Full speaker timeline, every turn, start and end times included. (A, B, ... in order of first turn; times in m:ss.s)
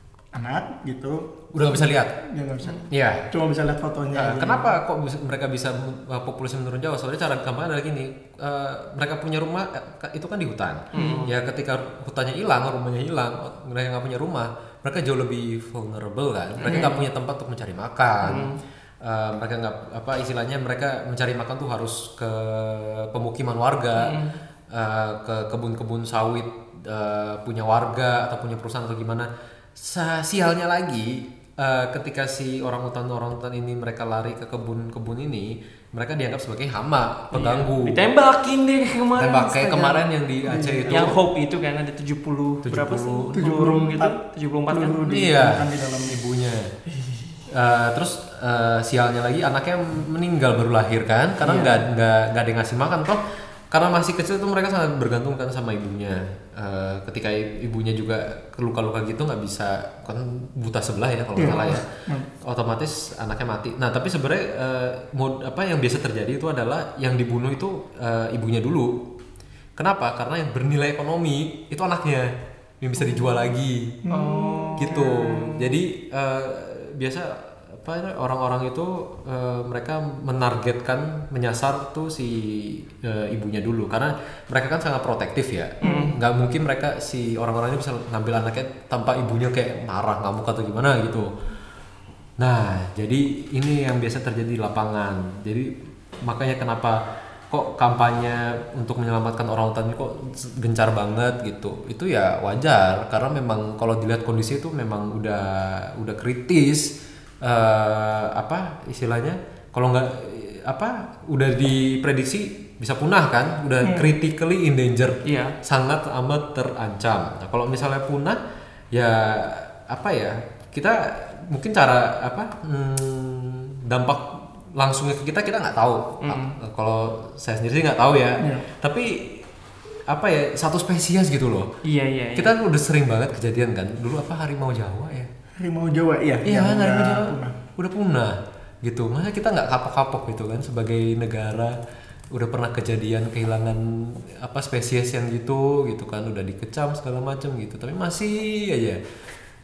0:00.3-0:04.8 A
0:01.5-0:02.1 B
0:02.9-0:03.3 B
0:04.1-0:24.2 B
0:10.9-0:11.3 C
0:16.6-0:17.0 C
0:18.2-0:18.6 C
0:24.0-0:24.4 C
0:24.7-0:38.1 B
0:37.3-0:40.0 C
0:39.2-0:41.2 B
0:40.4-0:41.1 A
0:40.9-0:45.0 C
0:42.6-0:43.4 B
0:43.3-0:44.2 A
0:44.7-0:46.2 A
0:45.0-0:46.7 B
0:47.5-1:01.8 B
0:51.4-0:51.8 C
1:01.4-1:02.3 A
1:02.4-1:09.0 B
1:09.8-1:14.0 B
1:14.0-1:15.2 A
1:14.1-1:15.3 C
1:14.8-1:31.3 B
1:25.8-1:26.1 C
1:25.8-1:26.1 A
1:32.4-1:58.4 B
1:53.8-1:54.1 A
1:55.2-1:55.5 C
1:58.9-2:09.5 B
2:06.2-2:06.6 C
2:08.4-2:08.6 A
2:10.1-2:11.7 B
2:11.8-2:12.5 C
2:12.4-2:15.3 B
2:15.6-2:17.6 A
2:16.4-2:21.8 B
2:22.3-2:29.0 B